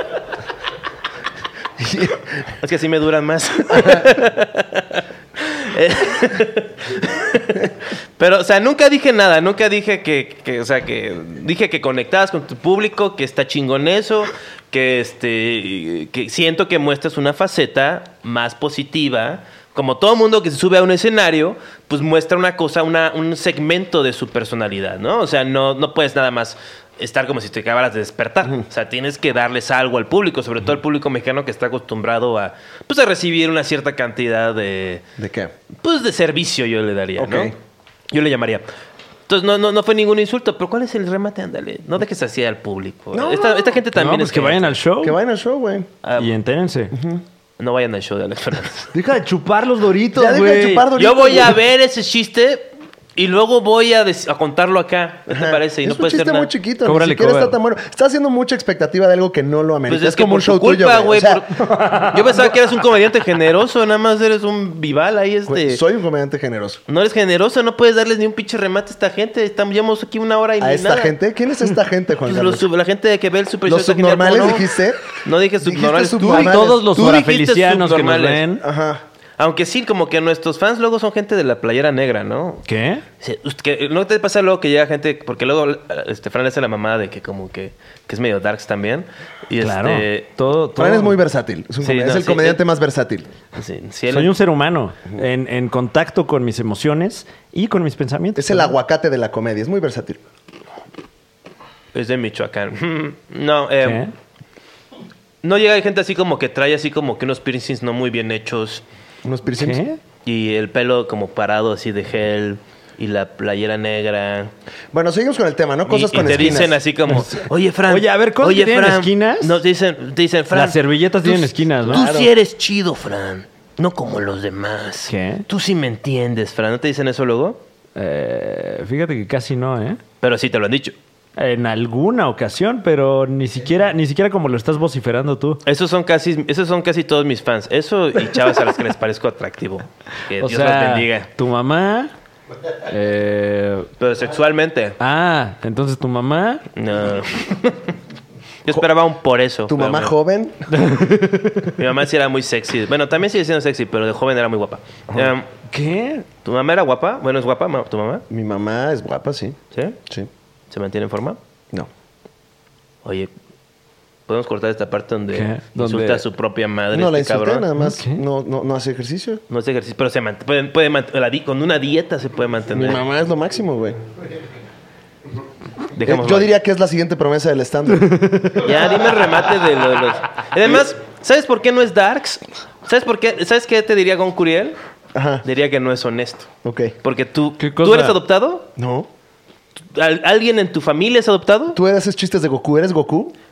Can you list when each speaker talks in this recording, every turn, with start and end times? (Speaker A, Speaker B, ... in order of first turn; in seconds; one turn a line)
Speaker A: 1.8-2.4
Speaker B: 2.6-35.0
Speaker A: 3.8-4.0
Speaker A: 35.2-35.5
Speaker B: 35.8-37.5
Speaker A: 37.2-37.5
Speaker B: 38.1-38.6
Speaker B: 39.3-44.8
Speaker A: 43.1-43.8
Speaker C: 43.9-45.2
Speaker A: 45.0-45.9
Speaker B: 46.0-46.3
Speaker C: 46.2-46.9
Speaker A: 46.9-47.2
Speaker B: 47.6-48.9
Speaker C: 48.9-50.9
Speaker A: 50.1-51.6
Speaker B: 50.9-56.5
Speaker A: 55.3-61.8
Speaker C: 56.8-57.6
Speaker B: 59.9-65.8
Speaker C: 61.7-62.2
Speaker A: 65.5-66.8
Speaker B: 66.9-71.1
Speaker A: 70.6-72.7
Speaker B: 72.2-78.4
Speaker A: 73.7-75.0
Speaker A: 75.6-76.8
Speaker C: 76.2-78.6
Speaker A: 78.6-79.0
Speaker B: 79.4-82.6
Speaker C: 82.7-83.0
Speaker B: 83.2-90.3
Speaker C: 89.6-91.2
Speaker A: 90.8-93.3
Speaker B: 91.8-92.6
Speaker B: 93.5-94.3
Speaker C: 94.1-98.7
Speaker A: 98.3-100.2
Speaker B: 101.9-104.0
Speaker C: 103.8-104.1
Speaker B: 105.4-108.8
Speaker A: 109.2-109.8
Speaker C: 109.6-110.0
Speaker B: 110.2-114.5
Speaker A: 114.9-116.8
Speaker B: 115.8-127.6
Speaker C: 117.1-119.6
Speaker C: 120.5-122.1
Speaker A: 121.9-122.3
Speaker C: 125.1-125.4
Speaker C: 128.0-130.0
Speaker B: 130.2-130.9
Speaker C: 131.4-135.6
Speaker B: 135.6-141.3
Speaker C: 140.4-142.1
Speaker C: 142.8-143.9
Speaker B: 144.0-144.9
Speaker C: 145.0-146.6
Speaker B: 146.7-147.9
Speaker B: 148.6-150.1
Speaker A: 149.7-150.7
Speaker C: 150.7-151.8
Speaker B: 151.8-155.5
Speaker C: 155.7-156.2
Speaker B: 156.4-158.2
Speaker A: 158.3-160.3
Speaker B: 159.7-160.0
Speaker B: 160.7-161.4
Speaker B: 163.0-163.3
Speaker B: 164.3-167.7
Speaker C: 165.3-166.2
Speaker A: 166.9-169.4
Speaker C: 167.8-168.2
Speaker B: 169.5-173.0
Speaker A: 172.7-174.0
Speaker B: 175.9-176.5
Speaker A: 176.0-178.8
Speaker C: 178.0-178.7
Speaker B: 178.6-184.8
Speaker A: 185.1-185.4
Speaker B: 185.4-186.5
Speaker A: 186.6-186.9
Speaker B: 187.0-188.7
Speaker C: 187.6-188.2
Speaker A: 188.8-189.1
Speaker B: 189.9-191.8
Speaker A: 191.7-193.3